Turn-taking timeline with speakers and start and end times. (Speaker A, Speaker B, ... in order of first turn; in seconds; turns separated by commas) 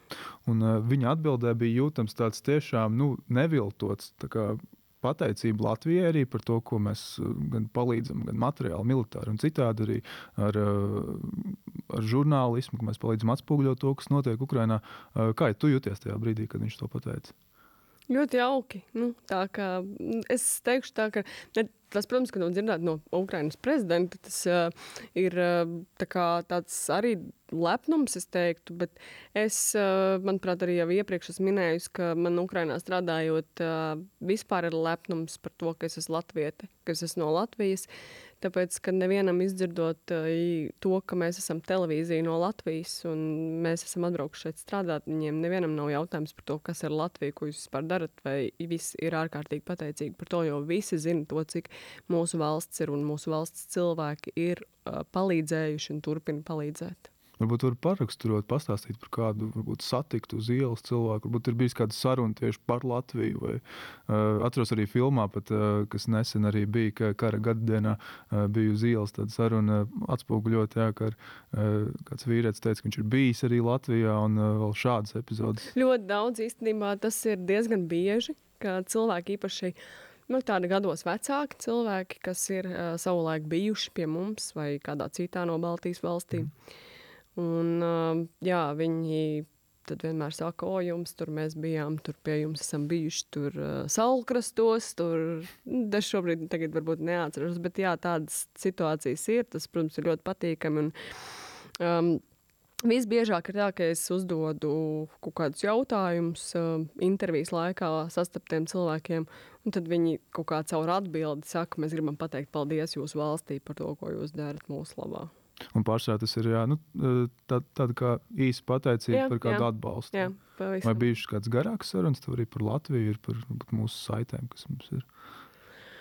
Speaker A: 0.5-17.3, Speaker B: 18.1-37.9, Speaker B: 38.4-57.1, Speaker A: 57.4-75.7, Speaker B: 75.7-79.8, Speaker B: 80.3-86.5, Speaker B: 87.3-100.9, Speaker B: 101.8-102.2, Speaker B: 102.8-115.3, Speaker A: 115.7-120.3, Speaker B: 119.1-121.1, Speaker A: 120.8-125.1